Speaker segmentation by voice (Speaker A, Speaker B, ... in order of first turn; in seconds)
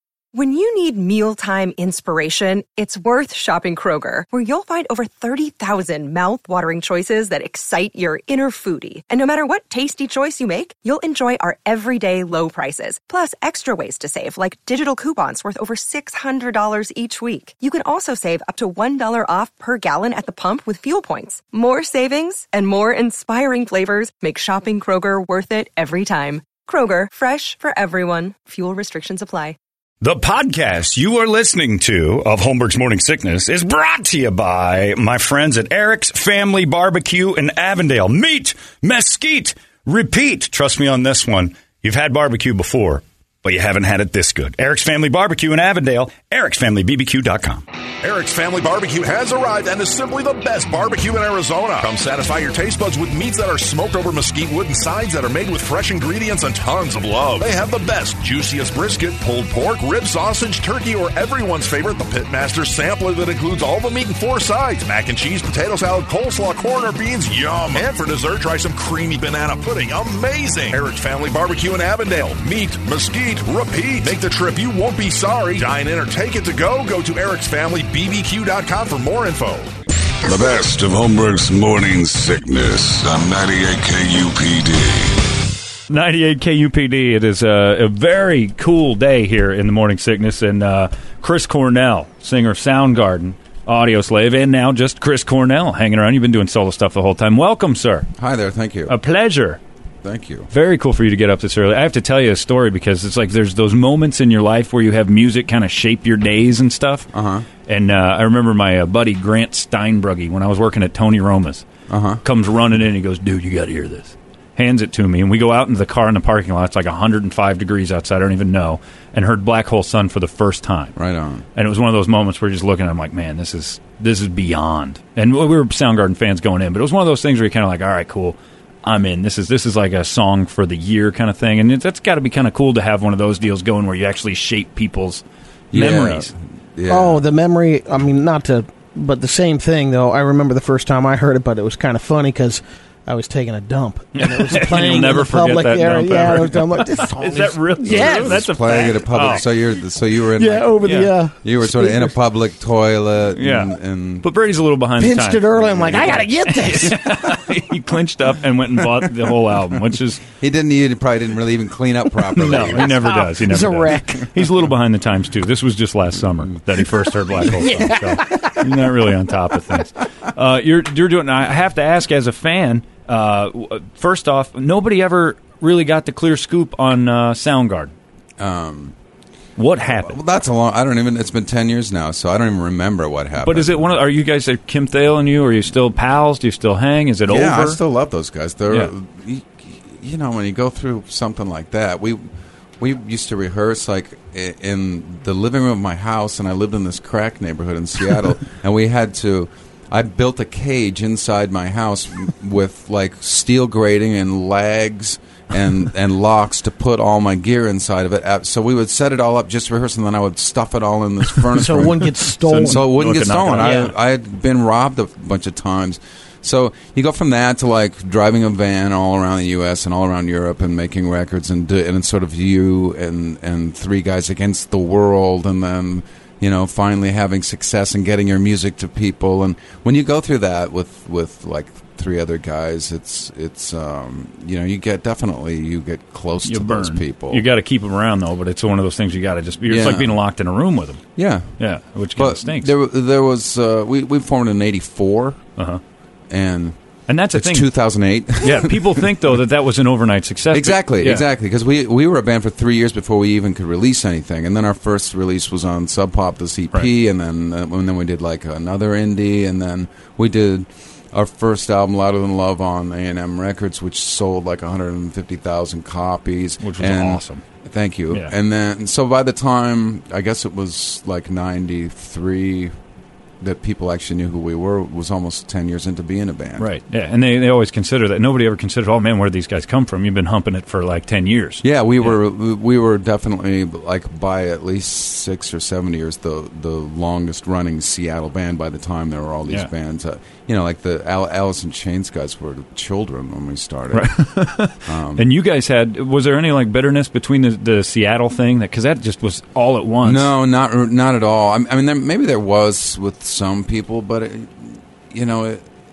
Speaker A: 0.3-29.6
Speaker B: 30.0-47.6
Speaker C: 48.0-79.7
Speaker D: 80.2-85.5
Speaker E: 85.9-98.1, 98.8-99.6, 100.5-107.1, 107.7-111.7, 112.2-120.9, 121.5-136.3, 144.1-149.4, 150.8-151.1, 153.3-160.2, 162.3-177.9, 179.6-180.2, 183.4-187.8, 212.4-213.9, 236.4-241.0, 241.6-242.7, 247.1-247.7, 248.3-251.2, 266.6-267.4, 276.6-282.2, 293.9-300.3
Speaker F: 98.2-98.9, 100.0-100.5, 107.1-107.5, 111.9-112.2, 120.9-121.4, 135.7-137.3, 147.8-150.8, 151.4-154.2, 160.4-163.2, 178.4-178.9, 179.8-183.8, 187.2-192.2, 192.8-237.4, 239.6-240.2, 241.2-241.6, 242.1-245.4, 246.3-246.8, 247.3-249.1, 250.5-272.7, 273.4-276.7, 281.6-295.3, 300.0-305.6
Speaker G: 136.9-148.4, 150.3-152.1, 155.0-157.3, 162.8-164.4, 167.6-168.6, 211.5-212.8